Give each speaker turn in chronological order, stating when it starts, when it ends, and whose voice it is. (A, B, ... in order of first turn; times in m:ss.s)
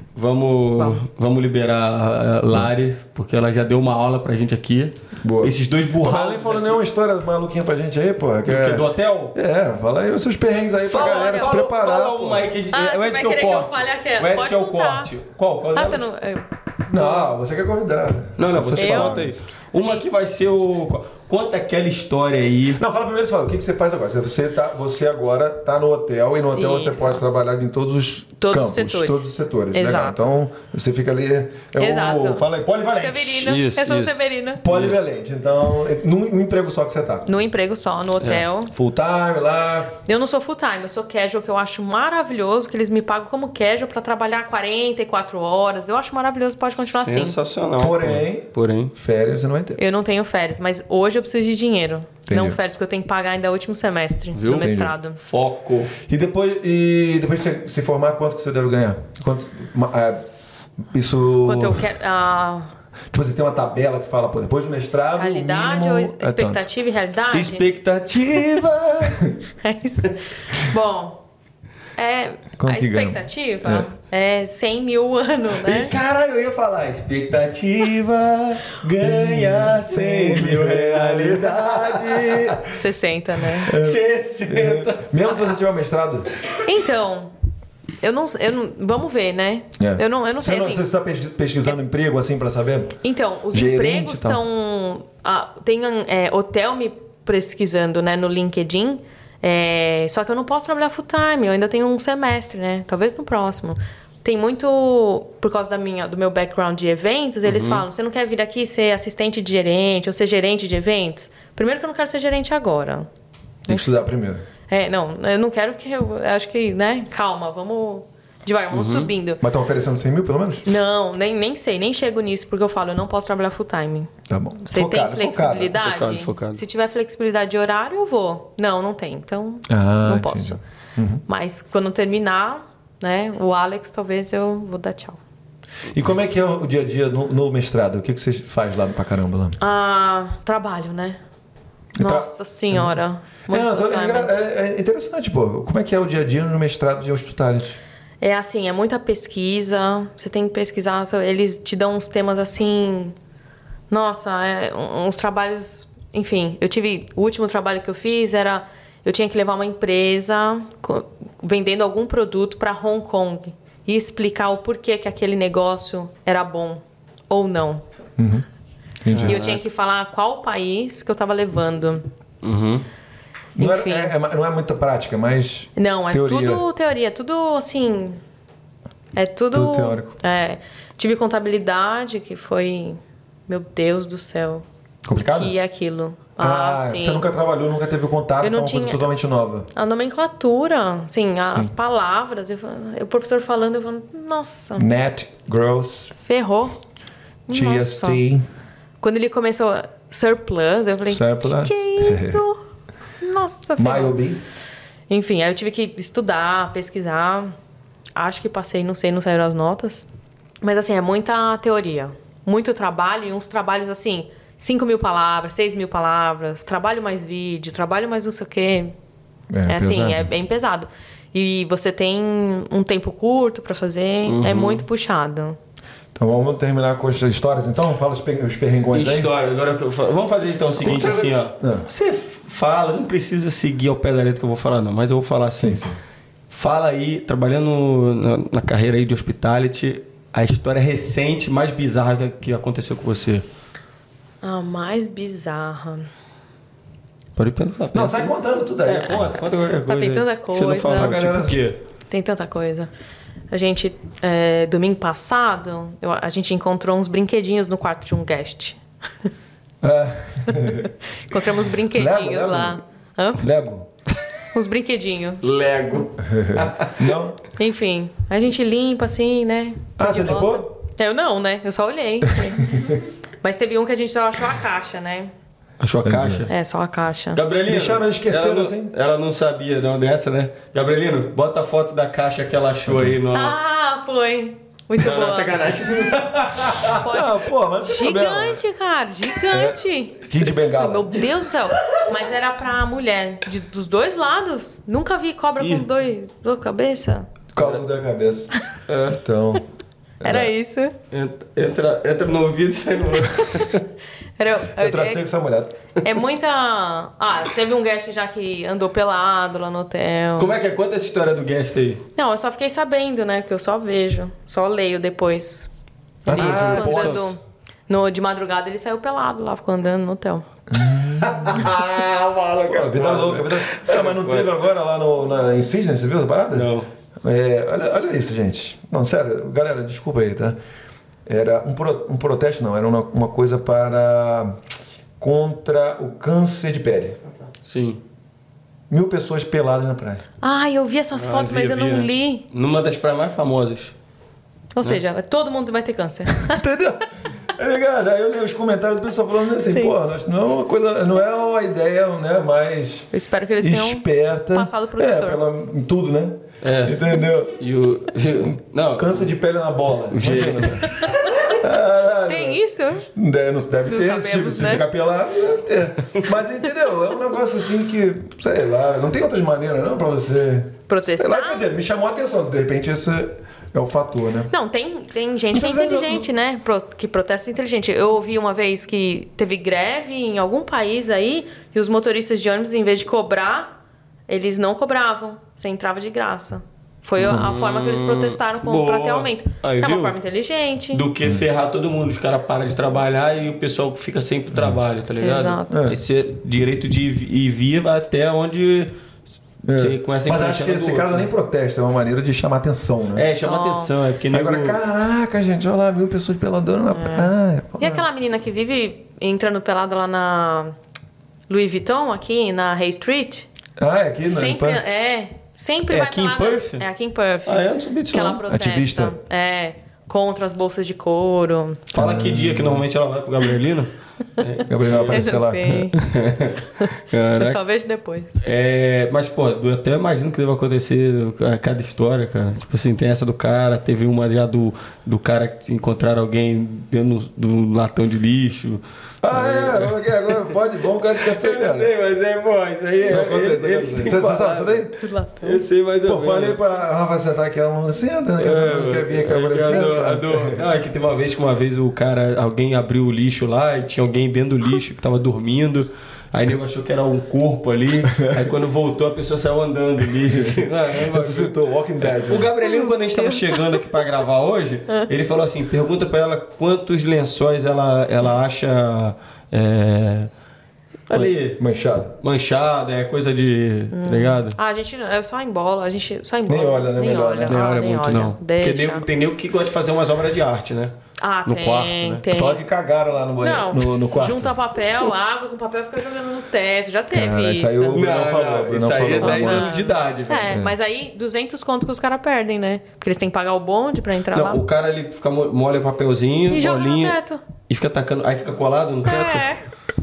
0:00.2-0:06.8 A
0:05.2-0:12.5 B
0:08.5-0:09.4 A
0:10.9-0:11.6 C
0:10.9-0:16.1 A
0:12.7-0:15.1 C
0:15.8-0:17.3 C
0:16.9-0:19.3 B
0:18.4-0:22.8 A
0:18.8-0:20.0 C
0:22.8-0:33.6 B
0:26.5-0:27.2 C
0:28.4-0:30.3 C
0:31.8-0:34.6 C
0:33.4-0:35.0 A
0:34.6-0:37.3 B
0:37.3-0:38.7 C
0:38.7-0:39.9 B
0:40.1-0:47.4 C
0:46.8-0:48.9 A
0:47.8-0:49.8 B
0:49.8-0:55.2 C
0:52.3-0:52.6 B
0:54.4-0:55.9 A
0:54.6-0:54.9 B
0:56.1-1:00.2 B
1:00.8-1:01.8 B
1:01.4-1:02.7 C
1:03.1-1:06.7 B
1:05.2-1:07.6 C
1:07.3-1:09.3 A
1:09.6-1:11.2 C
1:12.0-1:16.0 C
1:12.6-1:13.9 B
1:15.6-1:22.8 A
1:19.0-1:22.6 B
1:22.6-1:23.7 C
1:23.6-1:25.1 A
1:23.6-1:26.3 B
1:26.6-1:27.3 C
1:28.0-1:30.8 C
1:29.8-1:33.0 B
1:33.0-1:53.1 C
1:33.5-1:34.4 B
1:47.4-1:47.9 A
1:53.7-1:54.4 B
1:54.7-1:59.4 C
1:58.7-1:59.1 A
1:59.4-2:00.7 B
2:00.6-2:04.1 C
2:04.3-2:05.8 B
2:04.6-2:10.6 C
2:05.8-2:06.6 A
2:09.7-2:11.2 B
2:11.3-2:15.2 C
2:15.9-2:19.6 B
2:19.6-2:21.2 C
2:22.0-2:23.0 B
2:22.0-2:24.4 C
2:23.5-2:27.8 B
2:28.2-2:33.2 C
2:33.9-2:47.8 C
2:48.2-2:48.4 B
2:49.0-2:49.4 B
2:49.1-2:49.6 A
2:49.2-2:52.0 C
2:52.4-2:52.9 A
2:53.6-2:56.6 B
2:53.6-2:54.1 C
2:55.8-2:58.2 C
2:59.2-3:07.2 C
2:59.5-3:00.1 B
3:05.0-3:05.5 B
3:06.4-3:09.7 B
3:08.4-3:09.0 C
3:09.7-3:14.9 C
3:11.5-3:11.7 B
3:14.8-3:16.1 B
3:16.2-3:16.8 C
3:17.5-3:18.2 C
3:17.5-3:18.5 B
3:19.0-3:22.6 C
3:21.1-3:22.4 B
3:23.2-3:24.2 C
3:23.8-3:24.4 B
3:25.1-3:27.5 C
3:28.2-3:30.1 C
3:30.6-3:38.9 C
3:39.5-3:40.3 B
3:39.7-3:45.6 C
3:44.2-3:44.8 A
3:46.2-3:49.3 B
3:48.9-3:55.8 A
3:50.6-3:51.2 C
3:50.8-3:51.9 B
3:55.6-3:56.0 B
3:56.5-4:03.4 A
4:04.4-4:06.1 C
4:07.4-4:08.3 A
4:07.9-4:09.3 B
4:08.8-4:11.8 A
4:09.9-4:11.1 C
4:10.9-4:11.6 B
4:12.1-4:12.9 C
4:13.5-4:18.8 C
4:19.8-4:20.9 B
4:20.7-4:23.4 C
4:21.9-4:22.8 B
4:23.4-4:23.9 B
4:24.5-4:25.4 C
4:25.4-4:27.2 A
4:26.2-4:27.4 B
4:27.6-4:35.3 C
4:30.0-4:30.7 B
4:35.8-4:36.5 A
4:36.0-4:36.5 B
4:36.5-4:37.4 C
4:37.4-4:43.6 A
4:37.7-4:38.9 B
4:42.9-4:43.2 B
4:43.3-4:45.6 C
4:45.0-4:47.0 A
4:47.0-4:57.3 C
4:47.0-4:48.6 B
4:49.5-4:51.3 B
4:55.6-4:55.8 A
4:57.5-4:58.5 B
4:58.9-4:59.2 A
4:59.1-4:59.6 B
5:00.2-5:00.5 B
5:00.2-5:01.0 C
5:01.1-5:03.8 A
5:04.4-5:05.2 C
5:04.8-5:05.8 B
5:06.0-5:10.5 C
5:10.4-5:12.0 A
5:12.2-5:15.7 C
5:16.2-5:17.3 B
5:16.2-5:20.5 C
5:16.3-5:17.3 A
5:20.7-5:21.8 B
5:21.2-5:24.5 A
5:22.7-5:26.7 B
5:26.5-5:26.9 A
5:27.2-5:30.6 B
5:31.3-5:34.6 B
5:35.2-5:37.2 B
5:37.6-5:38.0 A
5:38.9-5:40.2 B
5:40.4-5:42.4 C
5:41.1-5:43.9 A
5:44.8-5:46.6 C
5:46.4-5:57.6 B
5:49.7-5:50.0 C
5:53.1-5:55.4 C
5:56.6-5:57.0 A
5:57.6-5:59.3 A
5:59.0-6:02.6 B
6:00.1-6:00.9 A
6:00.9-6:01.3 C
6:02.3-6:03.1 C
6:03.1-6:14.5 B
6:03.9-6:04.8 C
6:10.9-6:11.7 C
6:14.5-6:23.7 C
6:15.5-6:16.2 B
6:24.3-6:31.0 C
6:27.2-6:30.2 A
6:30.9-6:38.9 A
6:34.5-6:34.8 B
6:35.2-6:35.8 C
6:35.7-6:36.0 B
6:39.6-6:43.3 B
6:39.8-6:41.3 A
6:43.2-6:44.8 A
6:43.4-6:43.9 C
6:44.3-6:48.1 B
6:46.9-6:50.8 C
6:51.5-6:53.5 C
6:53.8-6:54.8 B
6:54.3-7:01.9 C
6:55.9-6:56.8 A
6:57.5-6:58.4 A
6:58.5-6:59.2 B
7:01.9-7:07.6 A
7:02.0-7:02.9 B
7:04.7-7:05.8 B
7:05.1-7:06.0 C
7:06.8-7:08.4 C
7:08.4-7:20.4 A
7:19.2-7:21.9 B
7:21.0-7:26.6 A
7:23.1-7:24.9 B
7:25.0-7:25.6 C
7:26.0-7:30.6 B
7:28.4-7:50.3 A
7:40.2-7:42.5 B
7:42.6-7:43.8 C
7:51.1-7:51.6 A
7:51.1-7:52.2 B
7:52.2-7:54.6 A
7:53.9-7:59.0 C
7:56.5-7:57.6 B
7:57.4-8:00.9 A
8:01.2-8:02.6 C
8:01.5-8:02.3 A
8:02.3-8:04.5 B
8:03.4-8:08.0 C
8:07.1-8:09.7 B
8:07.9-8:10.6 A
8:09.2-8:14.6 C
8:10.5-8:10.7 B
8:14.3-8:19.6 A
8:16.5-8:17.4 C
8:19.0-8:19.6 C